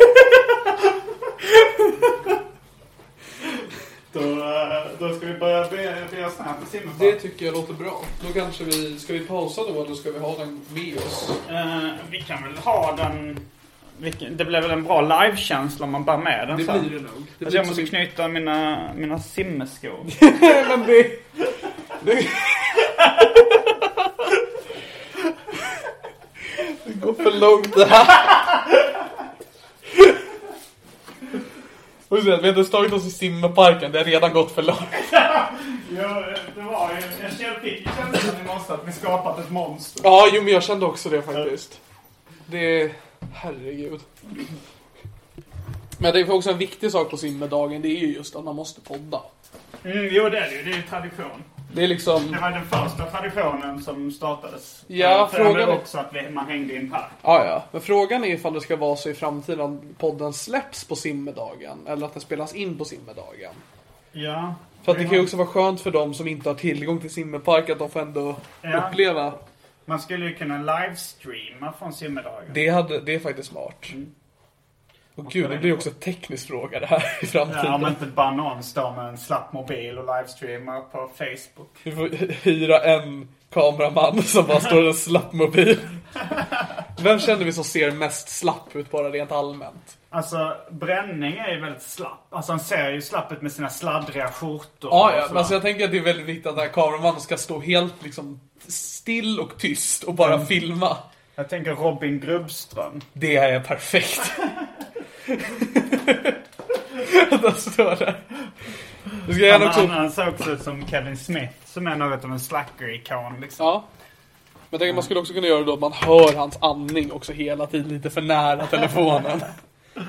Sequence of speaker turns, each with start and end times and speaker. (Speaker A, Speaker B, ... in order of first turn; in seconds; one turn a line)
Speaker A: 4.1-7.2
Speaker B: 7.0-11.4
Speaker A: 11.5-13.4
Speaker A: 14.0-16.9
Speaker B: 16.5-17.9
Speaker A: 17.4-20.2
Speaker B: 20.1-21.2
Speaker B: 22.0-22.9
Speaker B: 26.6-28.4
Speaker B: 32.1-35.2
Speaker A: 35.1-40.1
Speaker B: 40.0-41.8
Speaker B: 42.5-44.0
Speaker B: 46.0-49.3
Speaker A: 49.8-51.5
Speaker B: 51.7-52.4
Speaker A: 52.3-57.2
Speaker B: 54.9-55.8
Speaker B: 57.2-63.6
Speaker A: 64.1-65.3
Speaker B: 64.8-69.4
Speaker A: 68.6-69.0
Speaker A: 69.9-72.6
Speaker B: 72.5-74.0
Speaker B: 75.2-78.0
Speaker A: 75.2-75.9
Speaker A: 77.5-81.8
Speaker B: 81.8-86.0
Speaker B: 87.0-90.0
Speaker A: 90.1-95.6
Speaker B: 94.9-101.0
Speaker A: 100.2-100.5
Speaker A: 101.4-103.1
Speaker B: 103.2-104.5
Speaker B: 105.3-106.4
Speaker B: 106.9-108.3
Speaker B: 109.2-110.0
Speaker A: 109.3-113.7
Speaker B: 113.6-113.9
Speaker B: 114.7-119.6